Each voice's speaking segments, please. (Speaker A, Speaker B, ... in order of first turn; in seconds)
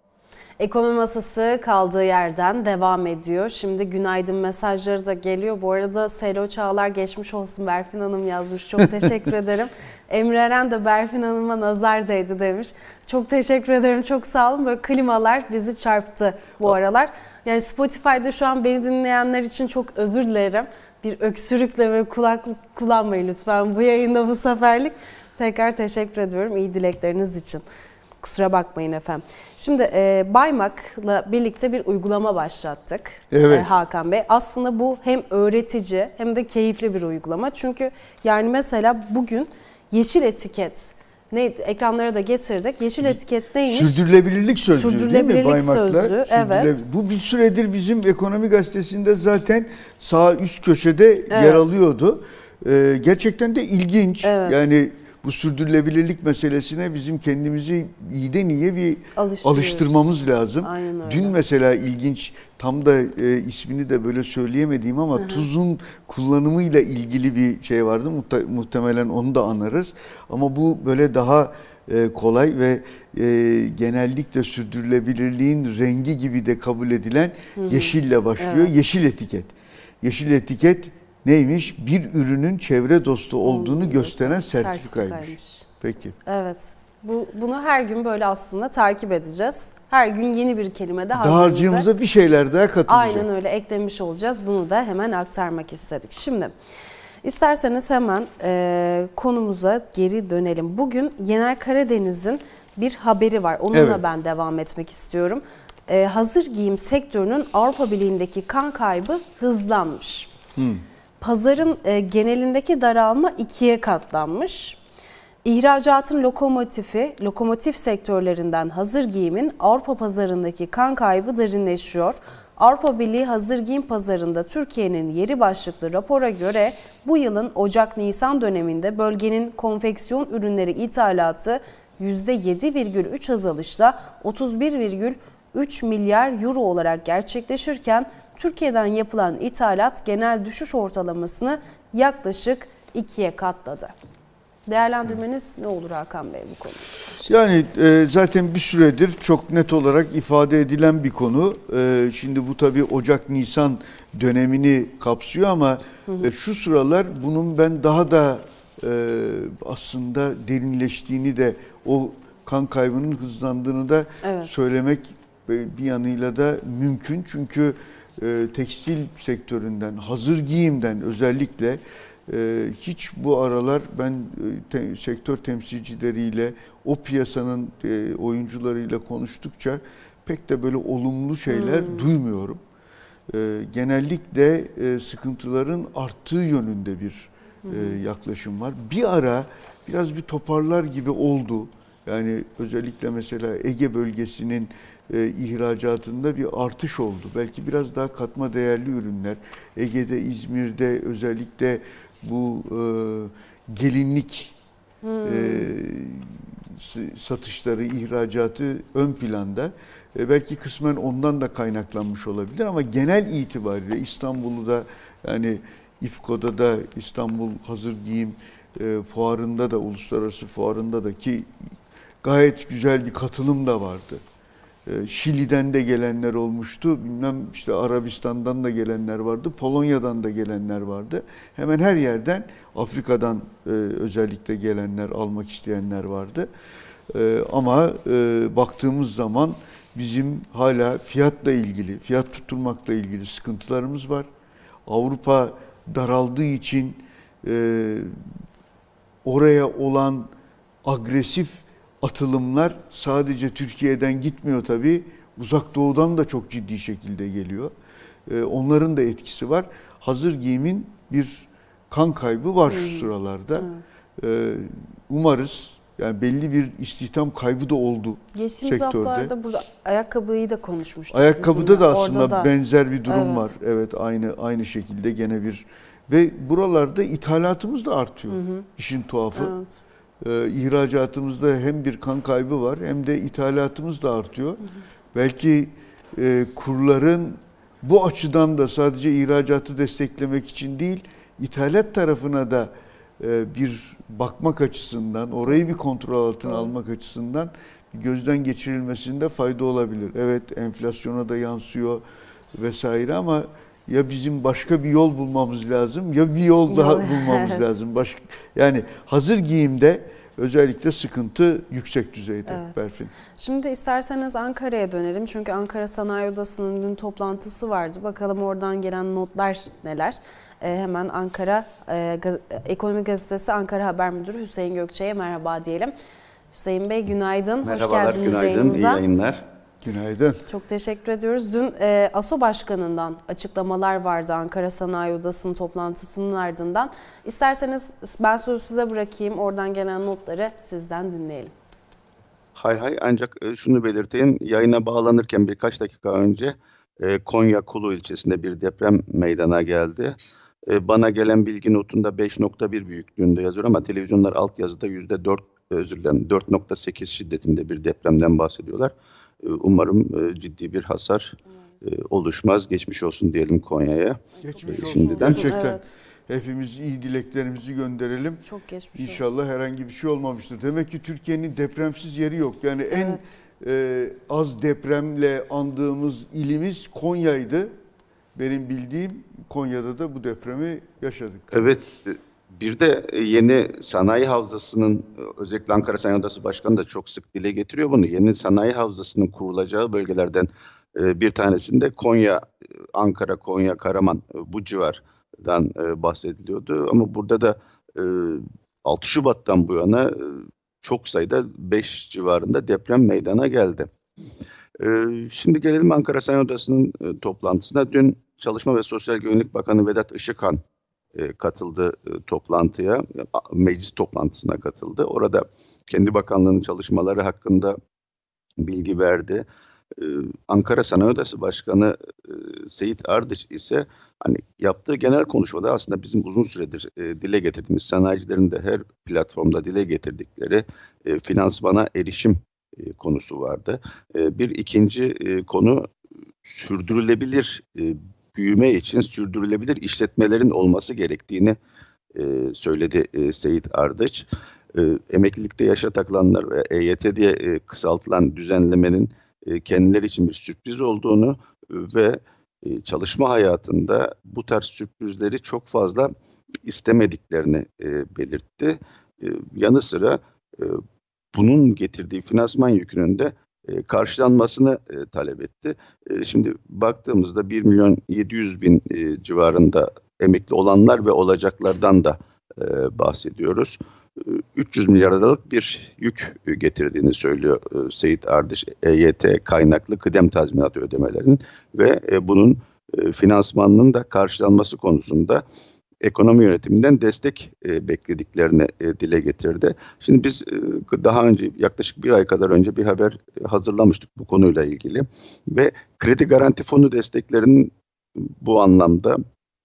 Speaker A: 0.6-27.6, 28.2-44.0, 44.7-46.8, 51.3-51.8, 54.2-54.7, 59.2-61.4, 65.1-65.5, 77.6-78.7, 83.4-85.7, 86.3-91.9, 92.9-96.5, 97.2-110.3, 111.2-114.8, 115.5-143.9, 144.7-147.2, 164.2-164.5, 181.5-182.1, 187.7-188.0, 205.0-205.7, 262.7-263.8, 268.3-272.5, 273.1-273.5, 278.3-278.7, 279.4-279.8, 296.5-296.7, 306.7-307.6, 312.5-312.8, 313.4-325.9, 326.5-329.0, 330.5-341.5, 364.7-365.9, 368.4-369.2, 372.9-373.4
Speaker B: 33.3-33.7, 43.0-86.2, 91.2-93.3, 103.7-104.0, 110.6-110.8, 147.2-182.6, 183.3-204.5, 205.2-221.5, 222.2-224.2, 224.9-236.5, 237.1-244.3, 244.9-248.2, 249.2-250.3, 250.8-257.7, 258.3-269.3, 271.1-279.6, 280.2-284.6, 285.1-302.0, 302.5-313.1, 329.8-330.4, 364.4-368.4, 368.9-377.7, 378.4-381.8
Speaker C: 327.6-329.5, 342.6-350.2, 350.7-365.6, 381.5-403.9, 404.8-410.6, 411.1-417.8, 418.6-419.5, 420.0-435.9, 436.4-441.6, 442.1-456.1, 456.6-460.8, 461.3-485.4, 486.0-499.2